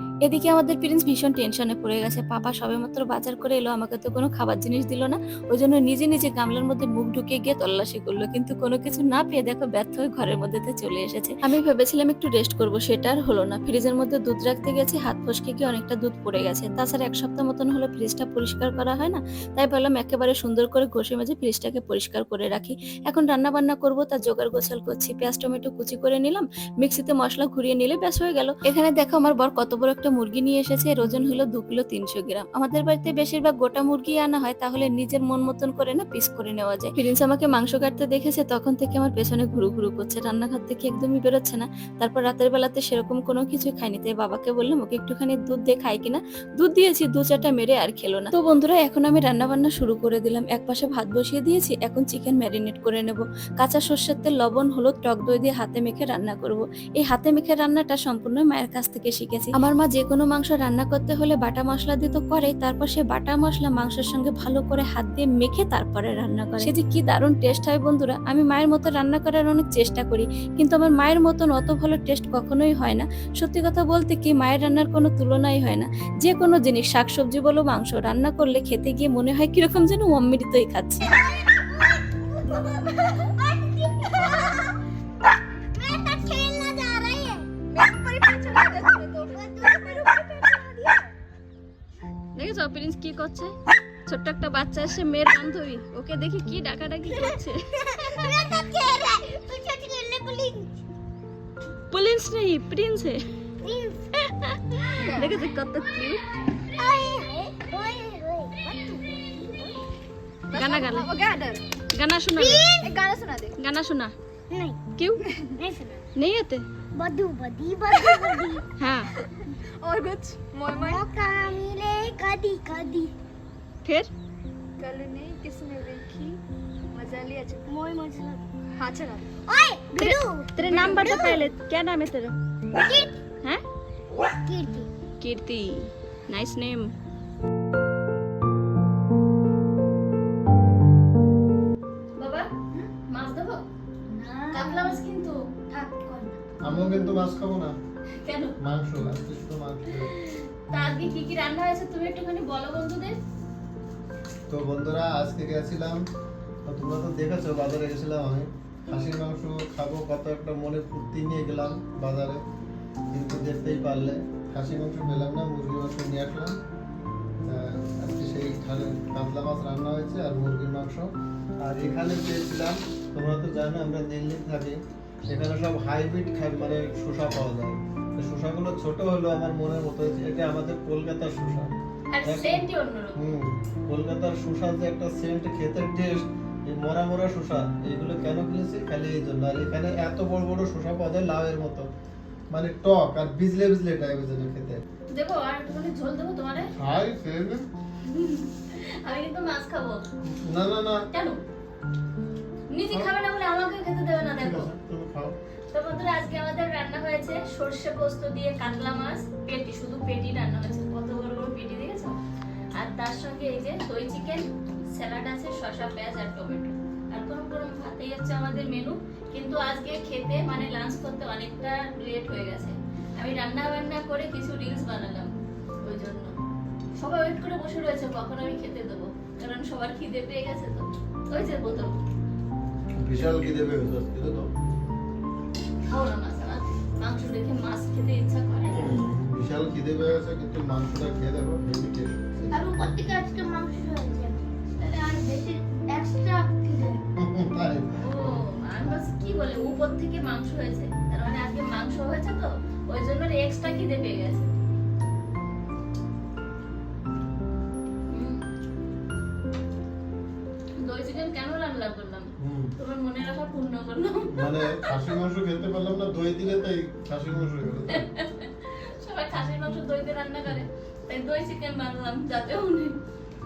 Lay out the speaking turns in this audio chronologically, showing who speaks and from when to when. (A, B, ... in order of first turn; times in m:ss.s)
0:00.2-1:21.1 A
1:21.1-1:24.8 B
1:25.7-1:27.5 B
1:27.7-1:30.9 C
1:28.6-1:31.1 B
1:32.4-1:33.5 D
1:34.1-1:37.6 D
1:37.8-1:40.8 B
1:41.9-1:43.2 D
1:43.6-1:44.0 B
1:44.9-1:45.3 B
1:45.0-1:46.2 D
1:45.1-1:45.4 C
1:46.7-1:49.8 B
1:50.5-1:51.6 C
1:50.5-1:51.1 D
1:51.9-1:52.7 D
1:52.3-1:52.9 B
1:52.8-1:53.5 C
1:53.6-1:54.1 D
1:54.5-1:54.8 B
1:55.6-1:56.0 B
1:56.2-1:56.6 D
1:56.9-1:58.6 B
1:57.9-1:58.2 C
1:58.8-1:59.1 D
1:59.8-2:01.0 C
2:00.7-2:03.1 B
2:03.8-2:04.1 D
2:04.8-2:06.4 C
2:06.9-2:07.6 C
2:07.6-2:08.4 B
2:08.8-2:09.3 C
2:09.5-2:11.4 B
2:10.0-2:12.3 D
2:12.8-2:13.1 B
2:14.2-2:14.9 B
2:15.2-2:16.9 D
2:22.2-2:22.5 D
2:23.1-2:23.6 D
2:24.1-2:25.0 B
2:24.5-2:25.4 D
2:25.7-2:26.4 B
2:26.6-2:27.8 E
2:28.2-2:28.5 D
2:28.6-2:30.1 E
2:30.7-2:33.2 D
2:34.5-2:36.0 E
2:36.7-2:42.4 E
2:43.1-2:46.6 E
2:47.4-2:54.8 E
2:55.3-3:01.7 E
3:02.1-3:03.2 D
3:02.2-3:02.6 E
3:03.2-3:11.9 E
3:12.5-3:14.8 E
3:15.1-3:16.7 D
3:16.7-3:17.7 E
3:18.0-3:20.0 D
3:20.2-3:21.1 E
3:21.1-3:21.4 D
3:22.7-3:24.7 D
3:24.4-3:25.3 E
3:25.7-3:32.2 D
3:32.7-3:45.3 D
3:45.8-3:46.3 D
3:47.0-3:52.0 D
3:53.0-3:54.5 E
3:55.9-3:59.0 D
3:58.7-4:02.8 E
4:02.5-4:07.0 B
4:07.1-4:08.4 E
4:08.0-4:14.5 D
4:18.1-4:18.4 D
4:20.8-4:24.9 D
4:22.4-4:22.7 E
4:24.3-4:28.1 E
4:27.9-4:33.0 D